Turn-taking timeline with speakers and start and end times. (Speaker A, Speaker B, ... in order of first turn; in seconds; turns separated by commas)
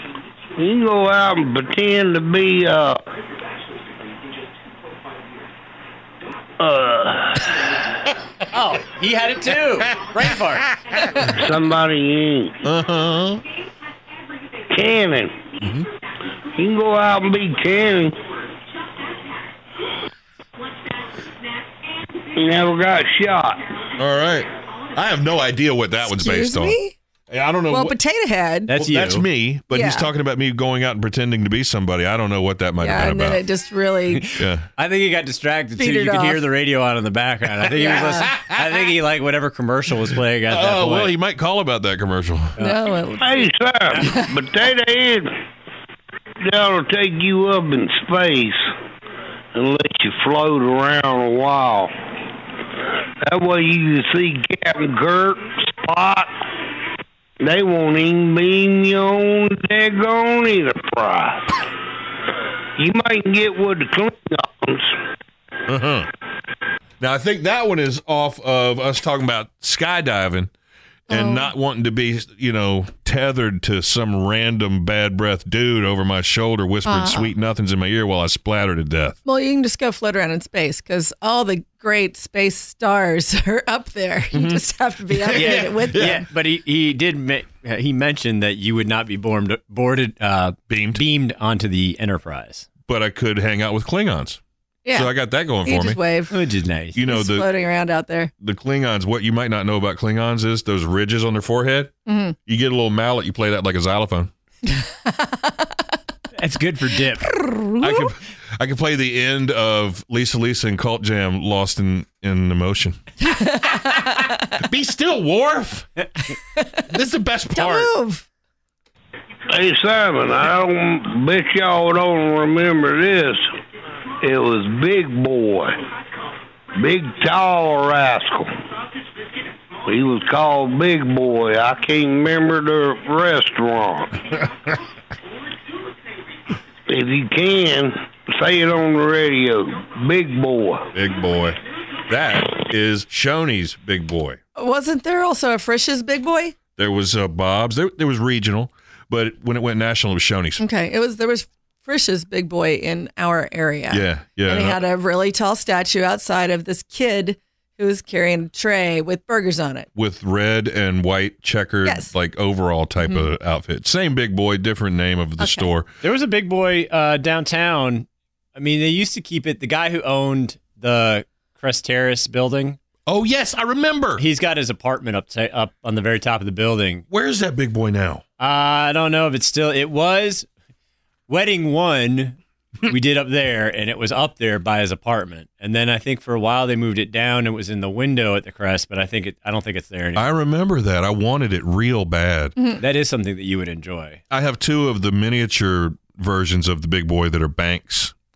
Speaker A: 0.6-3.0, Speaker A: 6.6-7.9, Speaker B: 8.5-10.7, Speaker C: 10.6-11.3, Speaker A: 11.2-12.6, Speaker C: 12.6-13.4, Speaker A: 14.7-15.5, Speaker C: 15.6-15.9, Speaker A: 16.5-18.1, Speaker A: 22.3-23.6, Speaker C: 24.0-26.8, Speaker D: 26.0-26.9, Speaker C: 27.3-27.9, Speaker D: 27.7-28.7, Speaker B: 28.7-29.2, Speaker C: 28.7-33.4, Speaker D: 29.7-30.1, Speaker D: 32.8-34.3, Speaker B: 34.1-41.1, Speaker C: 34.4-34.6, Speaker D: 35.8-36.4, Speaker D: 37.8-38.3, Speaker C: 38.2-38.6, Speaker C: 40.5-42.5, Speaker D: 42.6-43.5, Speaker A: 43.2-45.3, Speaker A: 46.4-48.7, Speaker A: 49.5-51.9, Speaker A: 53.2-56.5, Speaker A: 57.4-61.5, Speaker A: 62.8-65.0, Speaker C: 65.7-66.1, Speaker C: 67.0-70.5, Speaker D: 71.1-71.5, Speaker C: 71.1-79.2, Speaker D: 76.8-77.3, Speaker D: 79.2-86.2, Speaker C: 84.3-86.2, Speaker B: 85.3-92.7, Speaker C: 90.7-91.0, Speaker C: 92.9-94.4, Speaker D: 94.8-95.1, Speaker C: 94.9-96.0, Speaker D: 95.6-96.3, Speaker B: 96.3-97.0, Speaker C: 96.9-97.5, Speaker D: 97.1-98.3, Speaker C: 98.4-101.9, Speaker D: 102.1-102.3, Speaker C: 102.5-104.3, Speaker D: 104.7-105.8, Speaker B: 106.4-107.3, Speaker D: 107.2-108.1, Speaker C: 107.8-113.0, Speaker D: 113.2-114.5, Speaker C: 114.6-115.9, Speaker C: 116.9-117.9, Speaker D: 117.5-118.2, Speaker A: 119.5-123.5, Speaker A: 124.2-125.7, Speaker A: 126.7-128.5, Speaker A: 129.8-134.2, Speaker A: 136.9-140.9, Speaker C: 140.9-141.6, Speaker C: 142.1-144.4, Speaker D: 144.6-146.6, Speaker C: 146.8-150.6, Speaker D: 150.6-159.9, Speaker C: 153.9-154.8, Speaker C: 159.9-165.9, Speaker D: 161.8-162.1, Speaker D: 163.0-163.3, Speaker D: 165.4-165.7, Speaker B: 166.0-172.8, Speaker C: 173.1-174.2, Speaker B: 174.2-177.0, Speaker C: 177.1-178.2, Speaker B: 178.4-180.5, Speaker B: 181.3-190.3, Speaker C: 190.2-192.6, Speaker B: 192.8-194.2, Speaker C: 194.3-198.1